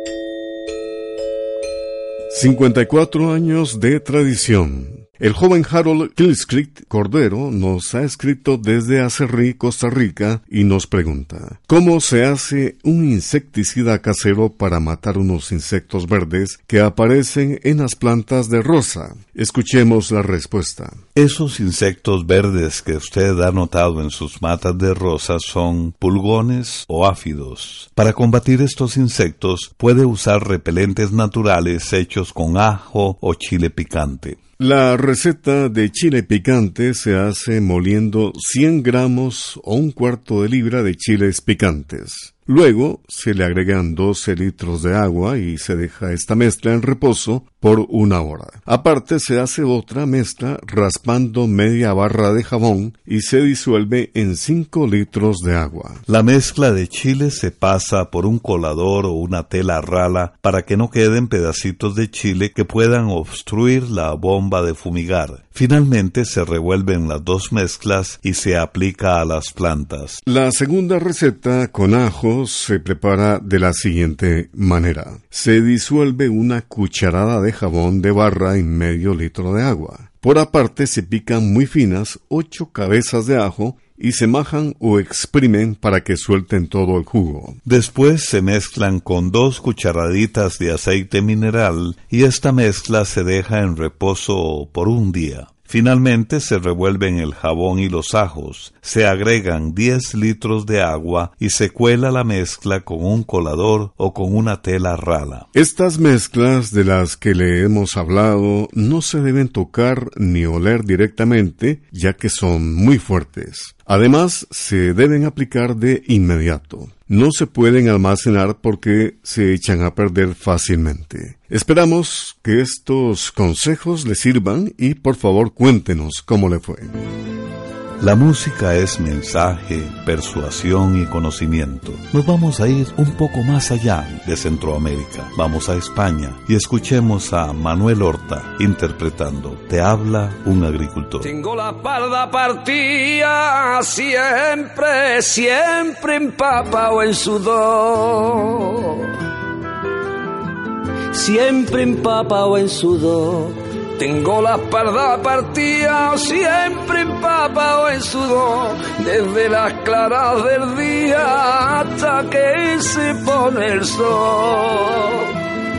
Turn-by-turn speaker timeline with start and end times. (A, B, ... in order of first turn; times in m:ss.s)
0:02.3-0:21.0 A
0:21.2-0:34.4 B
0:34.6-0:56.0 A
0:56.1-1:10.2 B
1:10.3-1:27.6 A
1:27.6-1:45.5 B
1:45.5-2:07.0 A
2:08.0-2:21.3 B
2:21.2-2:29.1 C
2:31.1-2:45.4 C